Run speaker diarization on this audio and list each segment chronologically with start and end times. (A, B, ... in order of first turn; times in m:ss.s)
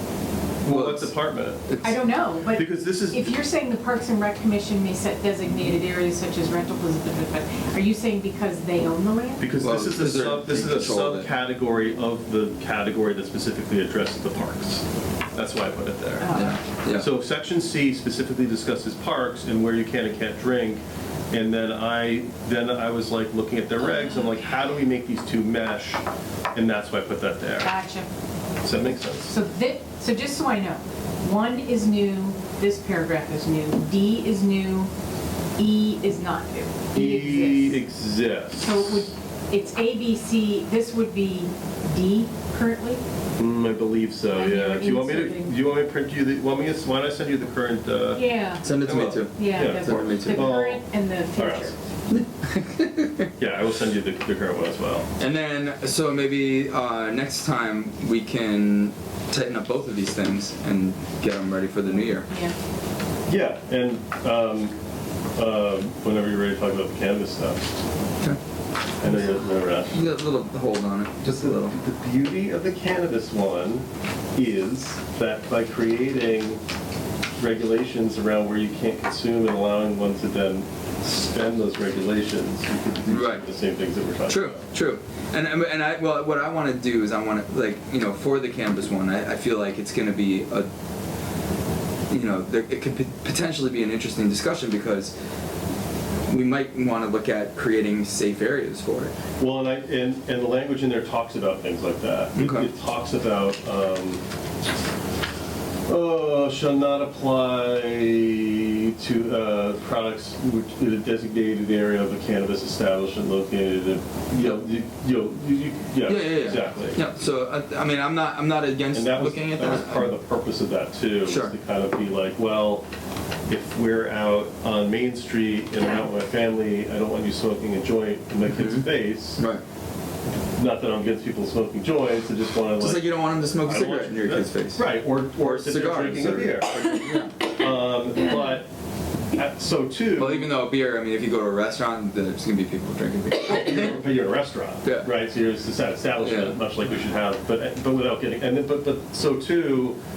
0:00.6-0:01.7 A
0:00.7-0:01.1 B
0:01.7-0:02.0 B
0:01.8-0:09.4 C
0:02.5-0:03.4 A
0:09.4-0:14.8 A
0:09.6-0:11.3 B
0:15.3-0:26.0 A
0:16.2-0:16.6 C
0:16.3-0:17.1 B
0:26.5-0:27.7 A
0:27.6-0:28.1 C
0:28.6-0:29.3 A
0:29.2-0:34.9 C
0:35.6-0:37.8 C
0:36.9-0:39.1 A
0:38.6-0:43.0 C
0:43.4-0:48.2 A
0:44.3-0:45.5 C
0:48.1-0:48.7 C
0:48.6-0:50.6 B
0:48.8-0:50.8 A
0:49.4-0:51.8 C
0:51.4-0:51.7 A
0:52.1-0:53.3 B
0:53.4-0:55.1 A
0:55.2-1:02.3 B
1:01.8-1:02.6 C
1:03.3-1:04.7 A
1:05.4-1:07.6 A
1:09.0-1:10.1 A
1:09.9-1:11.8 B
1:11.2-1:16.6 A
1:17.4-1:24.6 A
1:23.1-1:23.4 B
1:24.3-1:30.7 B
1:32.1-1:35.1 B
1:36.3-1:39.1 B
1:39.4-1:44.2 A
1:42.4-1:42.7 B
1:45.9-1:57.0 A
1:56.0-2:00.1 B
1:58.9-2:02.8 A
2:01.2-2:01.5 B
2:03.5-2:09.4 A
2:08.5-2:08.9 B
2:09.4-2:09.6 B
2:10.6-2:18.7 A
2:12.8-2:14.8 B
2:15.4-2:17.3 B
2:19.3-2:20.6 A
2:20.1-2:24.0 B
2:23.5-2:30.0 A
2:24.8-2:25.1 B
2:26.2-2:26.6 B